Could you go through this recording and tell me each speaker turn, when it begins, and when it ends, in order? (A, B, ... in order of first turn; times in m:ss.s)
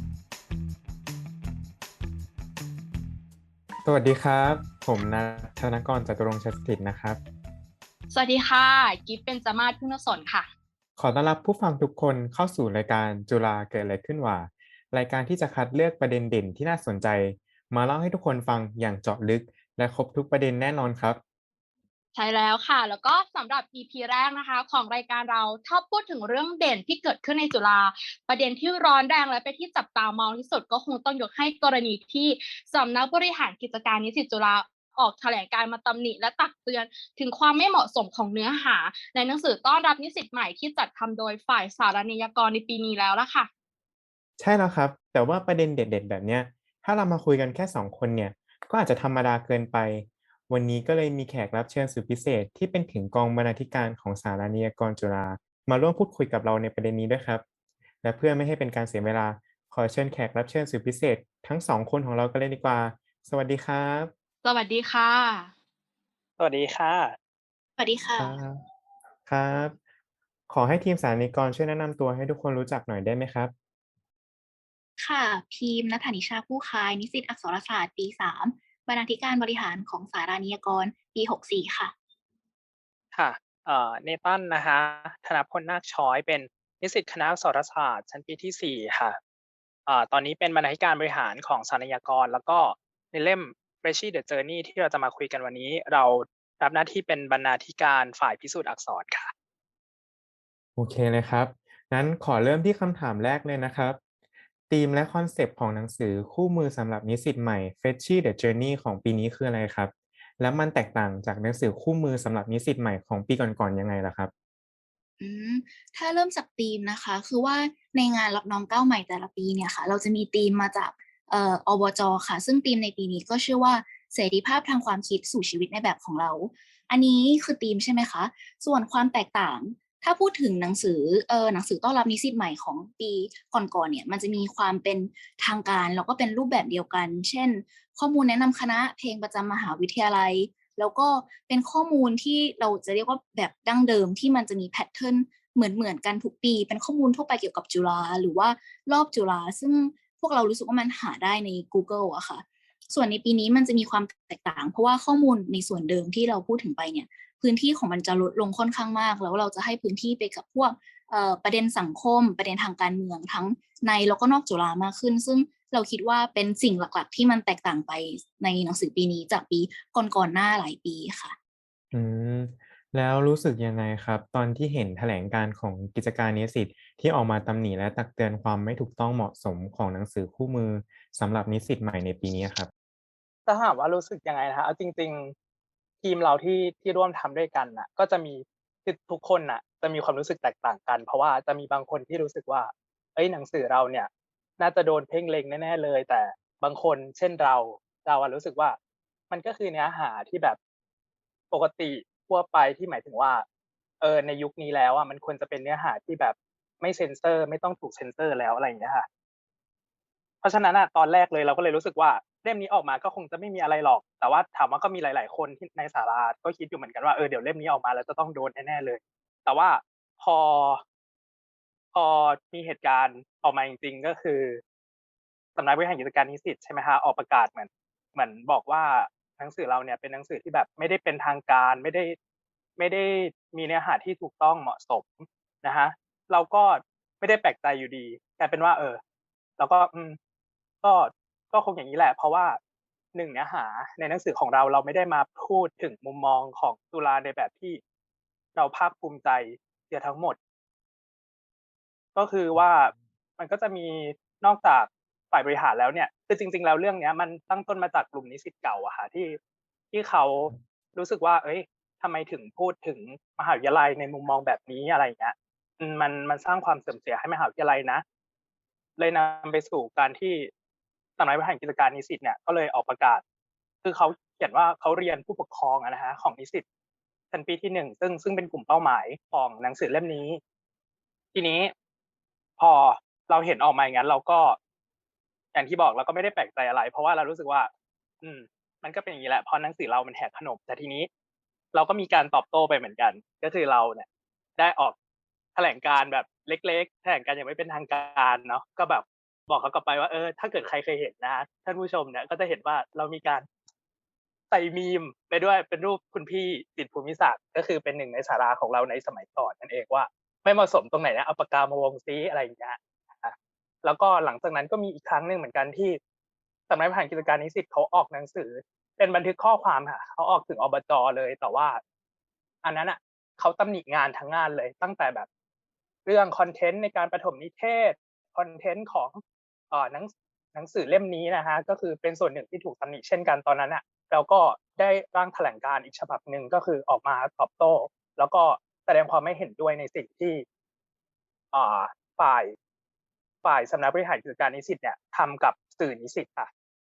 0:03.8-0:07.2 A
0:08.1-0:10.5 B
0:11.0-0:21.2 A
0:22.2-0:43.5 B
0:44.4-0:57.4 A
0:58.0-1:04.1 A
1:04.4-1:05.5 B
1:06.4-1:07.2 C
1:07.8-1:08.4 D
1:08.2-1:08.6 A
1:09.3-1:09.8 A
1:10.5-1:13.5 A
1:15.0-1:21.9 D
1:23.1-1:29.2 C
1:29.9-1:39.3 C
1:40.8-1:44.0 A
1:44.7-1:54.3 A
1:55.2-2:51.4 D
2:51.9-3:02.7 A
3:03.5-3:05.3 C
3:06.0-3:18.8 C
3:19.3-3:20.6 C
3:21.5-3:23.4 C
3:24.0-3:29.1 C
3:30.4-3:40.8 C
3:41.9-3:44.6 C
3:45.6-3:52.2 C
3:52.8-3:59.0 C
3:59.6-4:00.2 C
4:00.8-4:02.6 C
4:03.2-4:07.8 C
4:08.6-4:10.4 C
4:12.2-4:19.4 C
4:19.9-4:28.0 C
4:29.0-4:30.5 C
4:31.2-4:33.2 C
4:33.8-4:36.6 C
4:37.3-4:40.4 C
4:41.3-4:41.7 C
4:42.6-4:44.6 C
4:45.5-4:47.7 C
4:48.2-4:51.1 C
4:51.7-4:54.0 C
4:54.6-4:55.0 C
4:55.6-5:03.5 C
5:04.5-5:16.0 C
5:16.7-5:21.8 C
5:22.6-5:25.3 C
5:26.1-5:29.2 C
5:29.7-5:40.4 C
5:41.5-5:42.5 C
5:43.4-5:46.5 C